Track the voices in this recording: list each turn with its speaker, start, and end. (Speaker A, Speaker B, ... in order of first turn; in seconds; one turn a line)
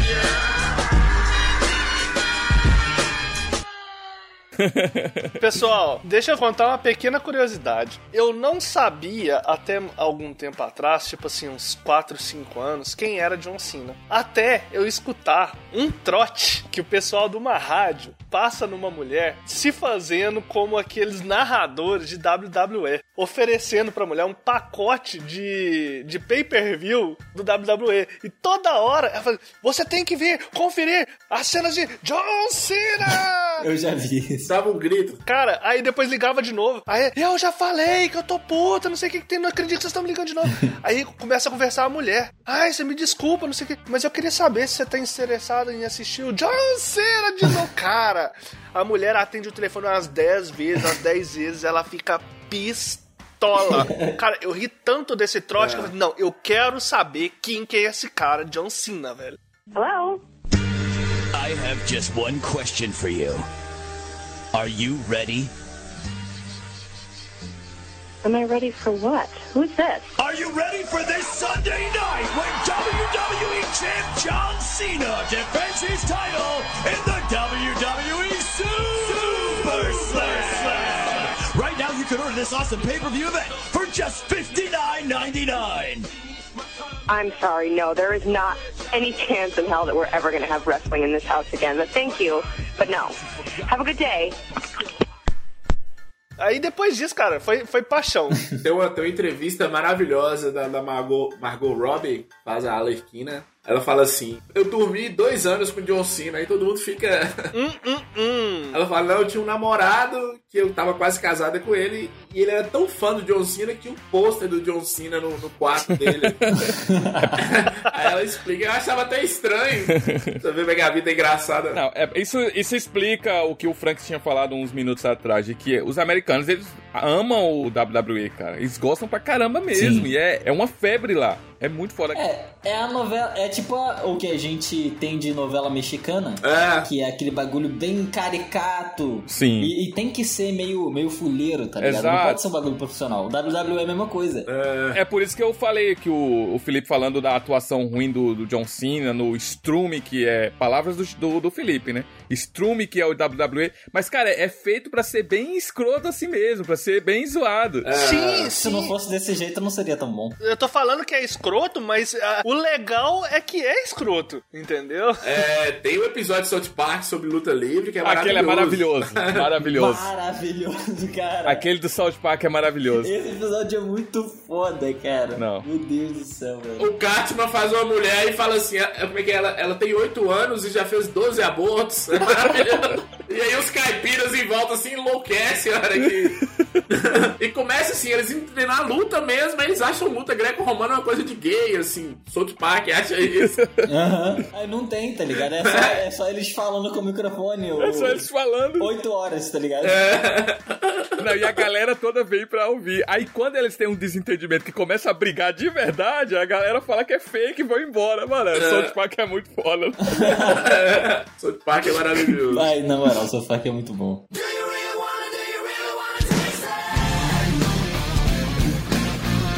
Speaker A: 4.6-5.4
Speaker B: 5.4-33.7
Speaker C: 33.6-34.5
Speaker D: 34.5-35.2
Speaker B: 35.3-59.4
Speaker C: 53.8-54.2
Speaker D: 55.6-55.9
Speaker E: 59.7-60.2
Speaker F: 61.3-63.5
Speaker F: 64.5-65.5
Speaker E: 68.2-70.1
Speaker F: 70.2-86.1
Speaker E: 87.1-94.4
Speaker B: 96.4-98.4
Speaker D: 98.6-107.5
Speaker B: 107.5-108.8
Speaker D: 108.7-116.4
Speaker A: 116.0-116.7
Speaker C: 116.8-117.4
Speaker D: 117.4-121.8
Speaker A: 119.9-120.4
Speaker A: 121.7-132.2
Speaker C: 129.7-130.1
Speaker C: 132.1-144.5
Speaker D: 136.4-136.9
Speaker A: 139.3-139.7
Speaker A: 141.8-142.4
Speaker D: 144.5-145.0
Speaker A: 144.9-157.9
Speaker D: 157.8-158.5
Speaker B: 157.9-158.9
Speaker C: 158.5-160.4
Speaker B: 160.4-165.2
Speaker D: 165.2-169.4
Speaker A: 168.0-170.1
Speaker C: 169.7-171.6
Speaker A: 171.4-173.1
Speaker C: 173.0-176.9
Speaker A: 175.3-175.7
Speaker D: 176.8-186.4
Speaker D: 186.9-193.5
Speaker A: 193.3-193.8
Speaker C: 193.9-198.3
Speaker D: 195.7-195.9
Speaker A: 197.8-198.9
Speaker C: 198.8-200.0
Speaker D: 199.8-201.3
Speaker A: 201.2-210.6
Speaker D: 208.5-208.9
Speaker C: 210.2-210.7
Speaker D: 210.6-212.7
Speaker C: 212.5-214.3
Speaker F: 214.5-216.5